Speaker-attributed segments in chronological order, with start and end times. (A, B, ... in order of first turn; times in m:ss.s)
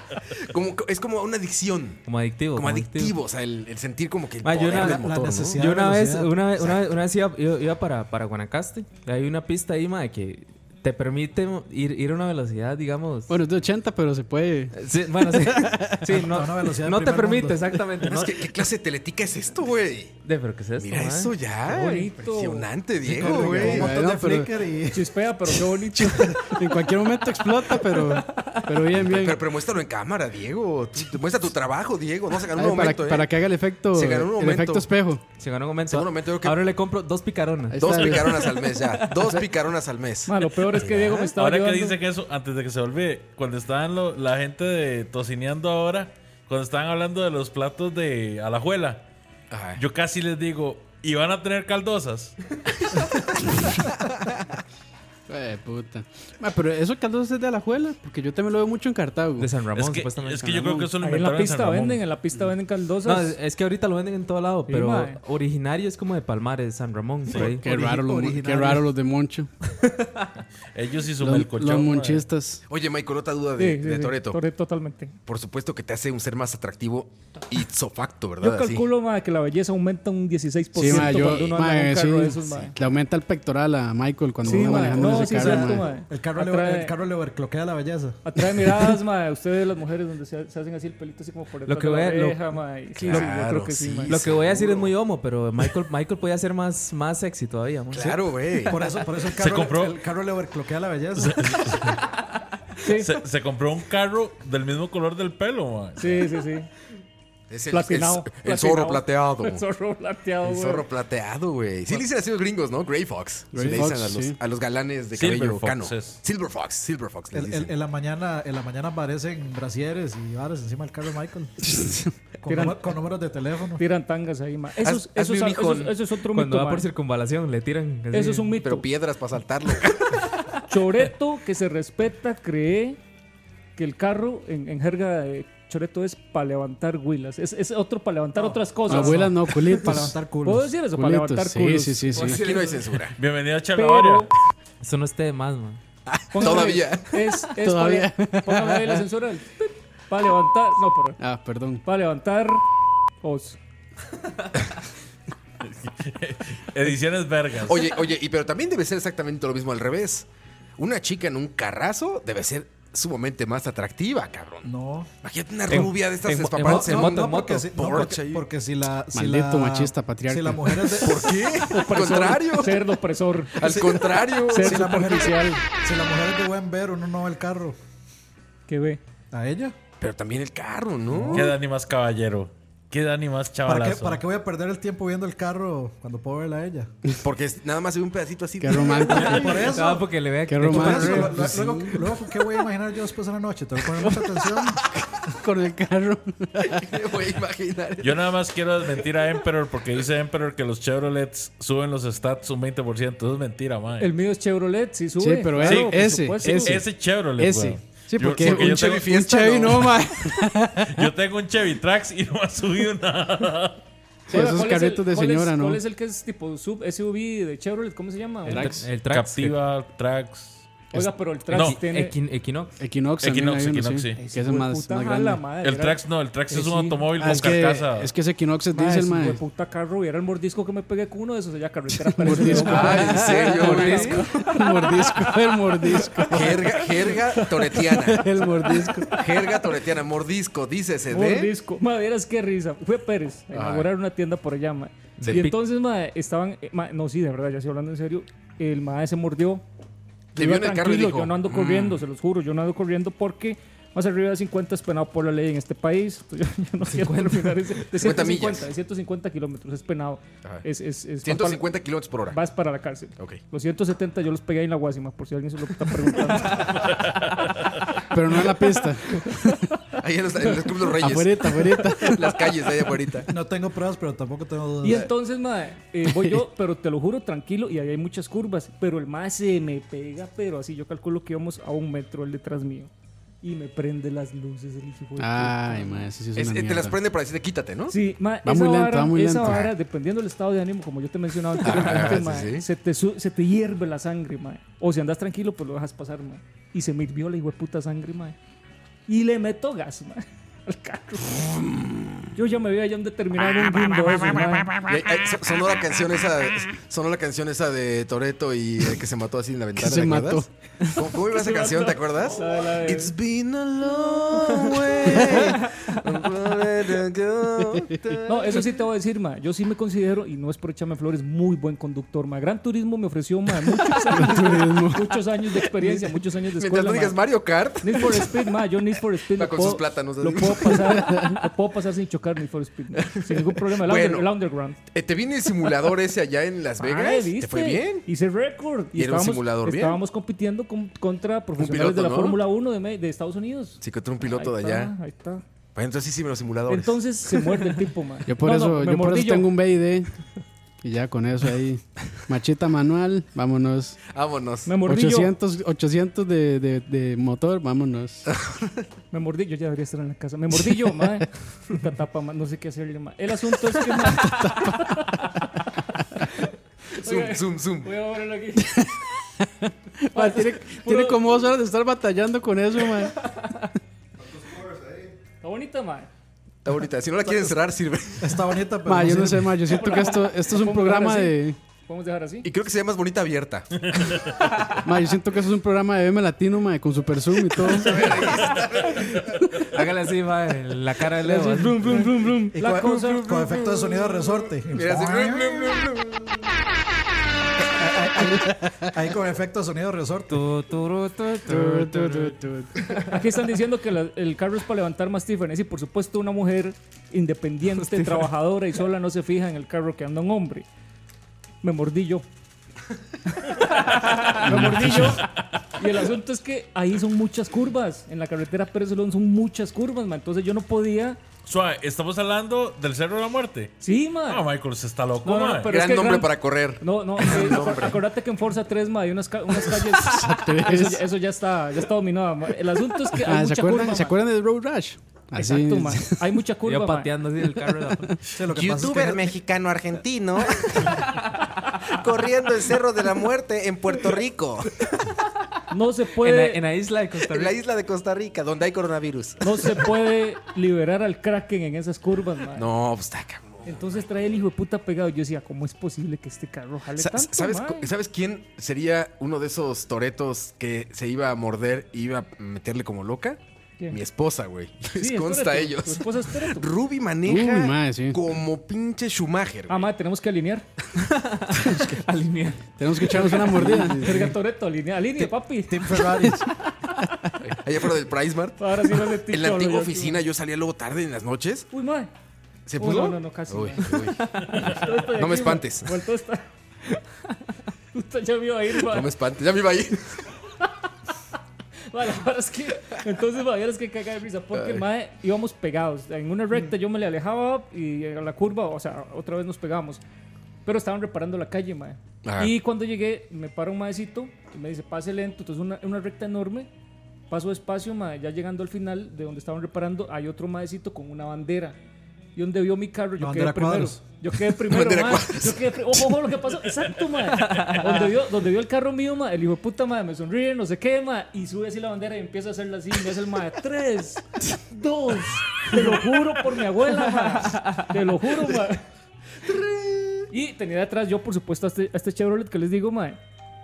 0:00.3-0:05.6 A
0:02.1-0:03.1 B
0:04.4-0:13.3 B
0:04.7-0:06.5 C
0:13.3-0:14.8 D
0:14.7-0:18.4 B
0:15.3-0:16.1 D
0:16.1-0:17.8 C
0:18.0-0:20.2 A
0:20.2-0:21.3 B
0:20.8-0:23.9 A
0:21.6-0:22.7 E
0:23.0-0:25.1 C
0:23.4-0:23.7 E
0:23.6-0:24.5 D
0:24.9-0:26.6 E
0:26.0-0:29.4 D
0:27.8-0:28.6 B
0:28.9-0:34.9 A
0:32.5-0:35.2 D
0:35.4-0:39.4 B
0:35.9-0:36.7 A
0:37.7-0:38.5 D
0:37.8-0:41.3 A
0:40.3-0:42.0 E
0:41.4-0:49.0 F
0:49.5-0:49.8 A
0:49.8-0:52.4 F
0:55.3-0:59.5 D
0:59.4-1:00.9 B
0:59.7-1:02.0 F
1:01.0-1:03.4 E
1:03.0-1:07.6 B
1:04.7-1:05.2 E
1:07.3-1:08.9 C
1:07.4-1:09.5 D
1:09.7-1:10.2 B
1:10.7-1:12.2 F
1:11.2-1:12.6 D
1:12.7-1:14.4 A
1:13.6-1:15.1 E
1:15.3-1:18.9 A
1:18.4-1:22.8 E
1:20.7-1:26.0 D
1:24.4-1:26.9 E
1:24.4-1:28.2 C
1:28.2-1:34.2 E
1:31.6-1:32.5 B
1:33.0-1:34.9 A
1:34.1-1:38.7 B
1:37.9-1:38.8 A
1:38.7-1:41.6 C
1:39.3-1:40.0 F
1:41.2-1:42.0 F
1:42.8-1:43.1 E
1:42.9-1:46.3 F
1:46.0-1:46.7 E
1:47.5-1:49.6 A
1:47.7-1:50.8 E
1:50.4-1:57.7 A
1:53.5-1:54.4 D
1:55.1-1:56.2 F
1:57.3-2:01.8 C
2:02.4-2:03.8 C
2:02.4-2:02.9 E
2:03.8-2:06.9 E
2:04.8-2:06.0 A
2:06.3-2:08.6 B
2:08.1-2:08.8 E
2:08.6-2:10.2 A
2:10.7-2:13.0 E
2:13.8-2:22.3 E
2:18.4-2:20.7 C
2:18.9-2:20.2 D
2:20.9-2:22.4 D
2:22.1-2:22.8 B
2:22.2-2:23.1 A
2:23.2-2:24.3 F
2:23.7-2:24.3 E
2:24.8-2:25.8 B
2:26.1-2:27.3 A
2:26.3-2:31.2 E
2:27.5-2:29.0 D
2:31.2-2:31.8 D
2:31.8-2:32.6 E
2:33.2-2:33.6 E
2:35.8-2:37.8 F
2:37.6-2:40.3 A
2:40.8-2:44.7 A
2:44.6-2:45.1 C
2:45.2-2:48.4 A
2:45.7-2:47.7 B
2:46.6-2:51.4 C
2:49.1-2:50.8 D
2:50.9-2:52.9 A
2:51.6-2:55.6 E
2:53.5-2:55.3 A
2:53.6-2:57.8 C
2:58.7-2:59.0 E
2:59.3-2:59.7 C
3:00.0-3:01.5 A
3:01.1-3:01.5 C
3:01.3-3:04.2 F
3:03.6-3:06.9 C
3:07.2-3:09.5 A
3:08.6-3:09.6 D
3:09.0-3:11.7 B
3:09.2-3:14.8 C
3:10.4-3:11.9 D
3:15.3-3:16.8 D
3:16.6-3:18.3 A
3:18.0-3:24.1 F
3:24.0-3:26.8 E
3:25.2-3:31.1 D
3:25.6-3:29.1 F
3:28.4-3:30.1 A
3:30.9-3:33.8 F
3:34.3-3:35.8 D
3:34.3-3:38.8 E
3:38.4-3:39.6 B
3:38.5-3:38.9 D
3:39.0-3:40.7 F
3:40.9-3:42.2 E
3:41.5-3:42.8 B
3:41.5-3:41.8 F
3:42.8-3:45.4 D
3:43.2-3:44.2 F
3:44.2-3:47.0 E
3:45.6-3:48.1 F
3:47.2-3:49.4 D
3:48.7-3:57.9 E
3:52.1-3:56.8 D
3:52.6-3:54.2 A
3:53.4-3:54.2 B
3:56.3-3:58.5 A
3:57.8-3:59.1 D
3:58.6-3:59.6 E
3:59.1-4:01.5 A
4:01.1-4:09.6 E
4:03.5-4:03.9 A
4:05.2-4:05.6 B
4:10.3-4:12.0 A
4:10.4-4:21.7 E
4:16.9-4:17.6 B
4:17.9-4:18.7 A
4:21.2-4:22.4 A
4:22.2-4:26.9 E
4:26.9-4:27.8 F
4:28.1-4:29.7 D
4:30.0-4:33.3 A
4:30.9-4:32.4 D
4:33.3-4:35.1 C
4:34.8-4:42.9 E
4:43.4-4:46.1 E
4:45.2-4:47.0 D
4:46.4-4:48.0 A
4:47.9-4:58.4 E
4:48.4-4:49.7 D
4:49.4-4:49.7 A
4:51.6-4:52.6 A
4:59.1-5:01.4 E
5:01.3-5:02.2 A
5:02.3-5:04.8 E
5:04.8-5:18.7 A
5:09.8-5:10.5 D
5:11.3-5:13.1 E
5:15.5-5:15.9 B
5:18.2-5:27.2 E
5:24.1-5:25.2 D
5:25.8-5:28.5 A
5:27.8-5:34.8 E
5:29.3-5:31.3 A
5:31.1-5:31.4 D
5:33.2-5:38.0 A
5:36.8-5:45.4 E
5:38.9-5:40.0 A
5:41.6-5:42.4 A
5:43.8-5:44.9 A
5:45.7-5:47.3 A
5:46.7-5:49.5 E
5:48.2-5:50.1 D
5:50.8-5:54.0 D
5:54.1-5:54.8 A
5:54.6-5:55.3 E
5:54.8-5:58.3 D
5:59.1-6:08.8 E
6:04.1-6:05.0 D
6:06.9-6:07.9 A
6:08.8-6:13.2 D
6:10.1-6:11.2 E
6:15.4-6:16.1 E
6:16.6-6:18.4 A
6:18.2-6:19.6 C
6:18.8-6:21.6 D
6:19.6-6:22.5 E
6:22.4-6:24.2 A
6:24.8-6:28.1 D
6:27.7-6:29.2 A
6:28.1-6:32.2 B
6:31.2-6:32.5 D
6:31.6-6:33.5 E
6:32.5-6:35.7 C
6:33.4-6:36.5 A
6:37.6-6:40.4 C
6:40.3-6:43.1 B
6:41.4-6:42.8 D
6:43.0-6:50.6 E
6:47.7-6:48.3 B
6:51.6-6:52.2 E
6:53.4-7:01.2 E
6:54.4-6:55.2 D
7:01.4-7:05.7 F
7:03.8-7:04.4 E
7:05.2-7:14.2 E
7:05.6-7:08.0 A
7:10.0-7:11.0 D
7:13.2-7:16.4 D
7:15.3-7:17.1 E
7:16.6-7:18.2 B
7:17.4-7:18.2 D
7:18.3-7:19.3 C
7:18.5-7:21.0 A
7:21.8-7:24.8 A
7:25.7-7:26.6 E
7:26.2-7:27.6 B
7:27.2-7:29.8 A
7:29.4-7:32.7 E
7:32.5-7:34.0 A
7:33.6-7:37.9 E
7:36.9-7:49.9 A
7:44.9-7:46.7 E
7:47.2-7:48.2 D
7:49.7-7:50.6 E
7:51.0-7:54.3 B
7:52.8-7:54.3 D
7:53.2-7:56.0 E
7:55.2-7:56.5 C
7:57.4-8:01.7 A
7:58.6-8:00.2 E
8:01.7-8:02.1 E
8:02.6-8:04.3 A
8:02.8-8:07.0 E
8:05.0-8:06.0 A
8:07.9-8:09.1 E
8:08.8-8:10.2 A
8:11.9-8:20.0 E
8:14.5-8:14.8 A
8:20.6-8:26.7 E
8:22.2-8:22.5 A
8:27.3-8:31.8 E
8:32.4-8:48.8 E
8:33.2-8:34.0 C
8:34.5-8:36.3 A
8:37.4-8:38.1 B
8:47.4-8:47.8 B
8:49.4-8:50.3 A
8:50.3-8:53.2 E